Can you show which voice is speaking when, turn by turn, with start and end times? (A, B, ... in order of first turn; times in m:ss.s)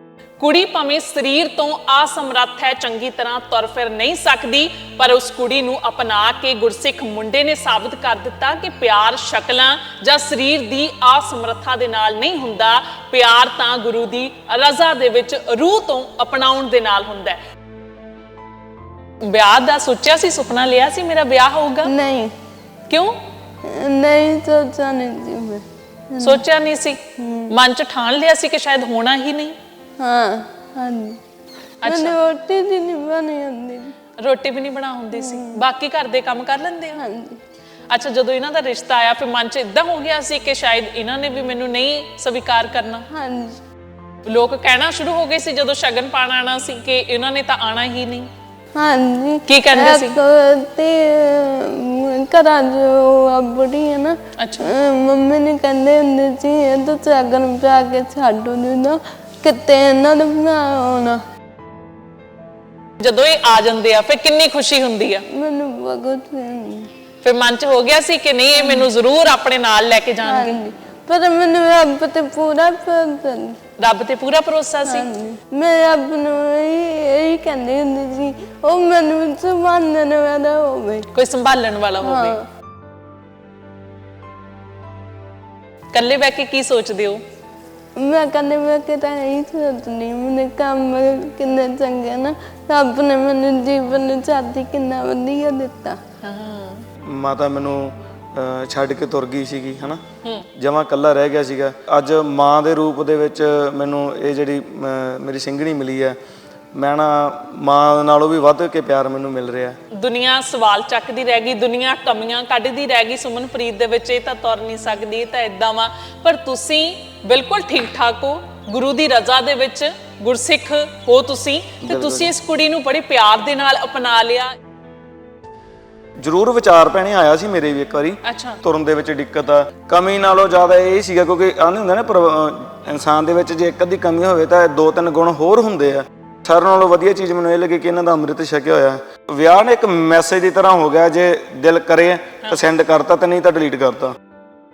0:00.4-0:17.4 A
0:19.2-0:21.9 A
0:21.8-0:22.3 B
0:22.9-0:23.2 A
0:23.6-0:26.4 B
0:26.2-0:29.6 A
0:27.2-0:27.5 B
0:30.0-0:31.2 B
0:31.8-0:32.2 A
0:31.8-0:33.9 B
0:34.2-0:37.0 A
0:35.1-0:35.6 B
0:37.0-0:37.4 B
0:37.9-0:43.1 A
0:43.1-0:43.6 B
0:44.2-0:48.3 A
0:48.7-1:01.2 B
0:49.5-0:50.2 A
0:54.4-0:54.7 A
1:03.0-1:05.2 A
1:05.3-1:06.9 B
1:07.2-1:10.6 A
1:08.6-1:08.9 B
1:10.2-1:13.6 B
1:13.8-1:15.1 A
1:14.9-1:21.1 B
1:21.1-1:22.4 A
1:22.0-1:22.4 B
1:25.9-1:27.2 A
1:28.0-1:36.0 B
1:36.2-1:36.9 A
1:37.0-1:40.0 C
1:40.2-1:40.5 A
1:40.6-1:46.2 C
1:46.7-1:49.8 C
1:49.9-2:04.6 A
2:01.8-2:02.3 C
2:06.2-2:24.2 C
2:08.2-2:08.6 A